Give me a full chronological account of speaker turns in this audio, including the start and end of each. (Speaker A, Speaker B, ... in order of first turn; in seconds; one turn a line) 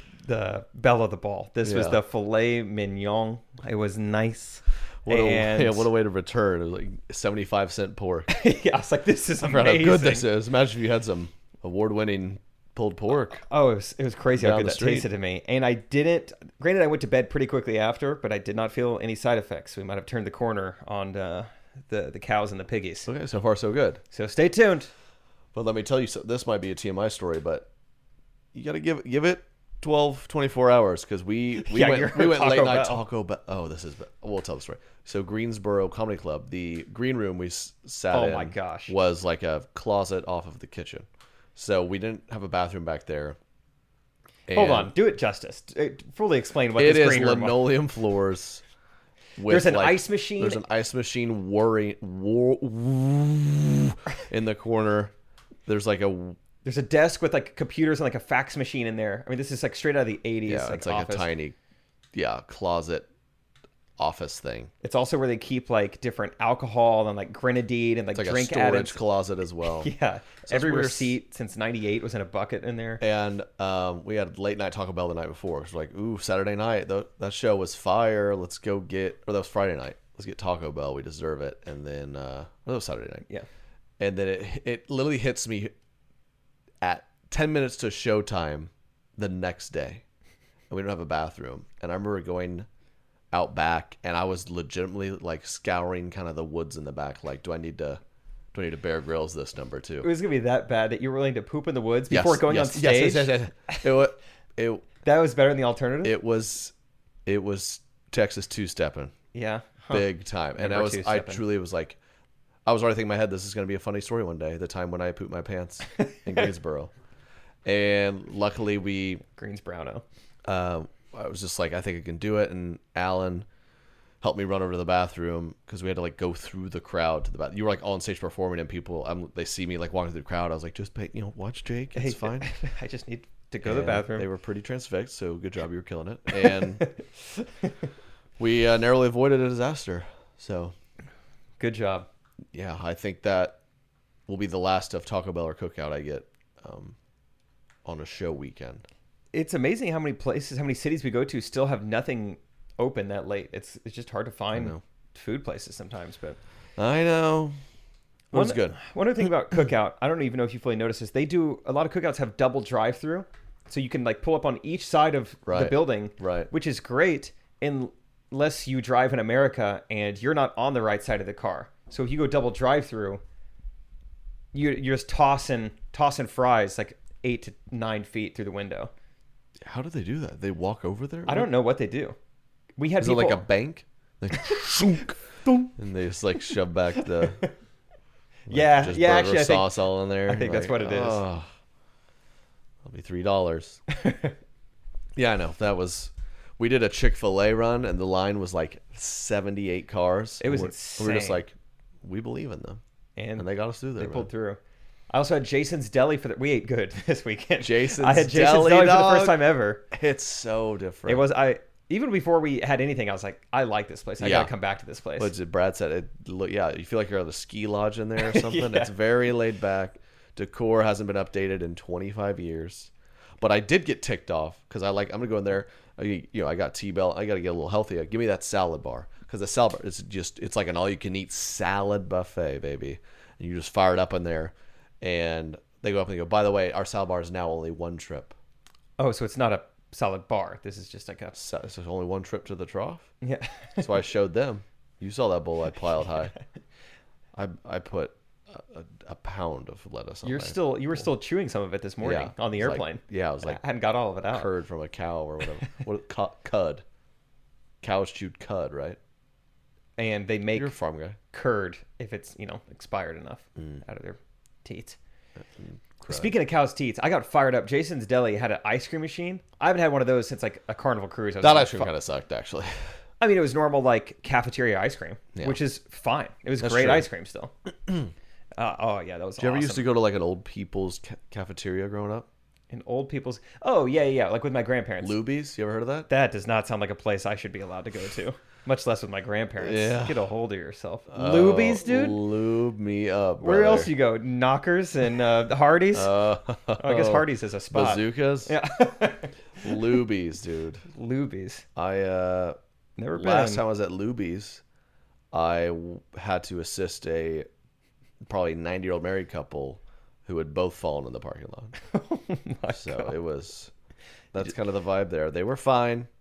Speaker A: 0.2-5.9
Speaker B: 1.6-2.0
Speaker B: 5.0-8.3
Speaker A: 8.3-10.3
Speaker B: 9.4-13.4
Speaker A: 13.4-23.1
Speaker B: 14.3-15.1
Speaker B: 23.1-24.0
Speaker A: 24.1-24.9
Speaker B: 25.5-27.7
Speaker B: 28.5-43.4
Speaker A: 31.6-33.0
Speaker A: 38.1-38.9
Speaker B: 44.5-44.9
Speaker A: 44.5-47.7
Speaker B: 46.8-48.6
Speaker B: 49.4-55.1
Speaker A: 49.5-50.6
Speaker B: 55.7-56.4
Speaker A: 56.6-61.3
Speaker B: 60.5-61.5
Speaker B: 62.1-63.1
Speaker B: 64.0-64.7
Speaker A: 64.8-69.0
Speaker B: 68.1-69.9
Speaker A: 69.8-73.0
Speaker B: 70.5-71.2
Speaker B: 73.0-83.2
Speaker B: 84.0-85.7
Speaker B: 86.8-90.0
Speaker B: 90.7-92.7
Speaker B: 93.3-98.0
Speaker B: 98.5-100.1
Speaker A: 100.0-104.0
Speaker B: 102.1-104.9
Speaker A: 105.0-106.2
Speaker B: 106.0-106.7
Speaker B: 107.3-109.1
Speaker A: 109.3-111.4
Speaker B: 109.9-112.0
Speaker B: 112.7-116.9
Speaker B: 117.7-119.2
Speaker A: 119.3-120.0
Speaker B: 120.5-123.5
Speaker B: 124.2-132.5
Speaker A: 131.9-134.3
Speaker B: 133.6-136.9
Speaker A: 136.3-137.7
Speaker B: 138.4-140.8
Speaker A: 141.6-142.1
Speaker B: 142.5-143.6
Speaker B: 144.3-147.0
Speaker B: 147.8-148.8
Speaker A: 149.3-156.4
Speaker B: 154.5-154.8
Speaker B: 156.8-157.6
Speaker B: 158.3-158.8
Speaker A: 158.3-173.2
Speaker B: 165.5-166.5
Speaker A: 174.5-178.9
Speaker B: 179.6-181.5
Speaker A: 181.3-182.2
Speaker A: 182.8-183.5
Speaker B: 183.0-187.5
Speaker A: 188.5-191.2
Speaker B: 188.5-191.5
Speaker B: 192.8-193.8
Speaker A: 194.0-194.3
Speaker B: 195.2-202.8
Speaker A: 200.4-201.4
Speaker A: 203.2-209.8
Speaker B: 203.4-204.3
Speaker B: 207.6-211.3
Speaker A: 211.1-215.3
Speaker B: 214.2-214.5
Speaker B: 215.2-238.3
Speaker A: 218.2-218.9
Speaker A: 239.0-241.4
Speaker B: 241.3-243.1
Speaker A: 243.2-243.8
Speaker B: 243.8-246.3
Speaker B: 247.3-251.1
Speaker A: 250.2-254.5
Speaker B: 252.0-253.6
Speaker B: 254.3-256.8
Speaker B: 257.8-259.0
Speaker A: 260.0-260.7
Speaker B: 260.5-261.2
Speaker A: 261.3-265.0
Speaker B: 263.6-263.8
Speaker B: 265.4-266.4
Speaker A: 266.1-271.9
Speaker B: 271.4-272.9
Speaker A: 273.2-277.5
Speaker B: 275.3-275.6
Speaker B: 276.6-277.1
Speaker A: 278.6-279.9
Speaker B: 279.4-282.3
Speaker A: 282.7-285.2
Speaker B: 285.0-286.1
Speaker A: 286.1-292.2
Speaker B: 289.6-290.2
Speaker B: 291.1-293.9
Speaker A: 293.4-296.2
Speaker B: 295.9-298.5
Speaker A: 296.8-299.7
Speaker B: 299.6-300.8
Speaker A: 300.9-301.6
Speaker B: 301.8-302.6
Speaker A: 303.0-303.6
Speaker B: 303.1-304.6
Speaker B: 305.3-307.5
Speaker B: 308.2-311.8
Speaker A: 311.9-313.2
Speaker B: 312.7-313.7
Speaker B: 314.3-316.1